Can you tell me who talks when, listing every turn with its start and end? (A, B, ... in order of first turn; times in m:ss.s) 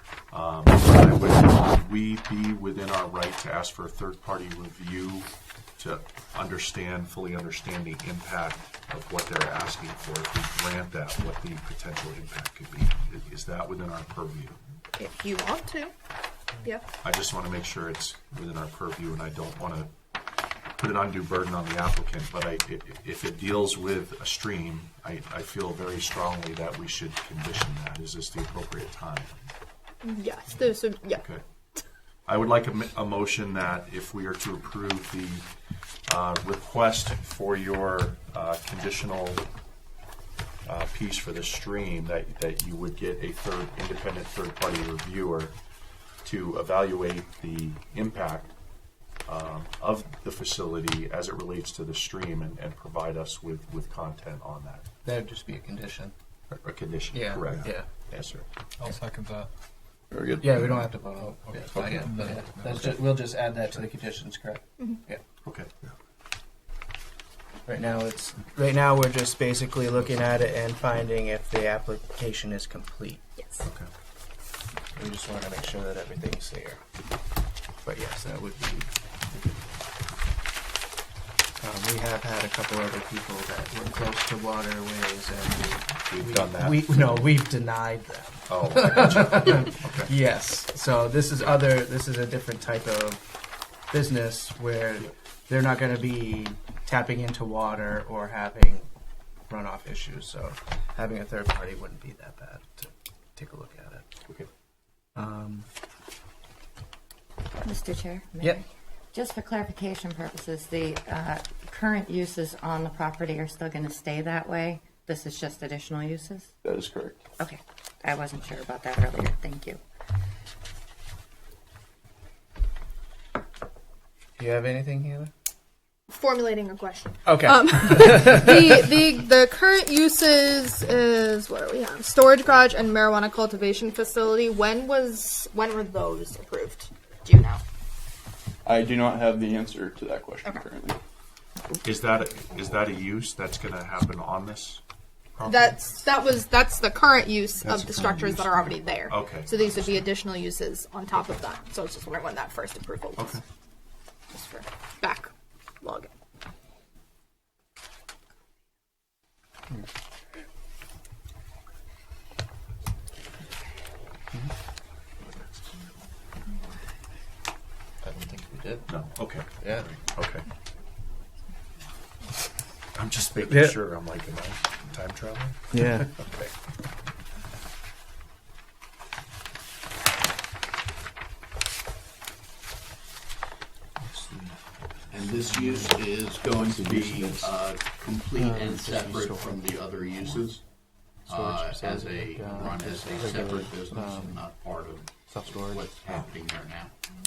0:00.3-0:14.6 A
0:15.0-0:15.9 B
0:17.0-0:19.9 A
0:20.8-0:29.3 A
0:30.0-0:31.2 B
0:31.2-0:31.4 A
0:32.2-0:35.4 A
0:36.0-0:39.4 A
0:40.6-0:45.6 A
0:46.2-0:48.5 A
0:49.2-0:54.9 A
0:55.0-0:56.1 C
0:56.5-0:58.4 A
0:57.1-0:57.9 C
0:58.8-0:59.5 D
1:00.1-1:00.5 E
1:00.4-1:05.2 C
1:00.5-1:03.0 D
1:05.4-1:05.9 A
1:07.7-1:13.2 C
1:13.4-1:13.6 B
1:13.6-1:13.9 A
1:14.9-1:16.8 C
1:17.8-1:19.4 C
1:21.6-1:33.2 C
1:26.1-1:27.4 A
1:28.5-1:30.1 A
1:33.9-1:38.9 C
1:39.5-1:44.0 C
1:45.1-1:45.7 C
1:47.6-1:56.5 F
1:56.6-1:57.2 E
1:57.4-1:59.8 F
2:04.4-2:05.3 C
2:06.1-2:17.6 B
2:07.3-2:08.6 C
2:18.6-2:21.0 E
2:21.8-2:24.8 A
2:25.3-2:25.8 A
2:25.5-2:33.4 B
2:27.6-2:30.1 A
2:33.2-2:33.4 A
2:34.3-2:35.3 B
2:35.8-2:36.1 B
2:48.0-2:48.9 C
2:48.9-2:50.4 A
2:52.9-2:55.8 A
2:53.4-2:53.8 C
2:55.7-2:56.1 C
3:04.1-3:04.6 C
3:05.1-3:10.6 G
3:06.7-3:07.4 C
3:08.4-3:09.6 C
3:11.3-3:16.9 G
3:11.3-3:14.4 C
3:15.3-3:16.2 C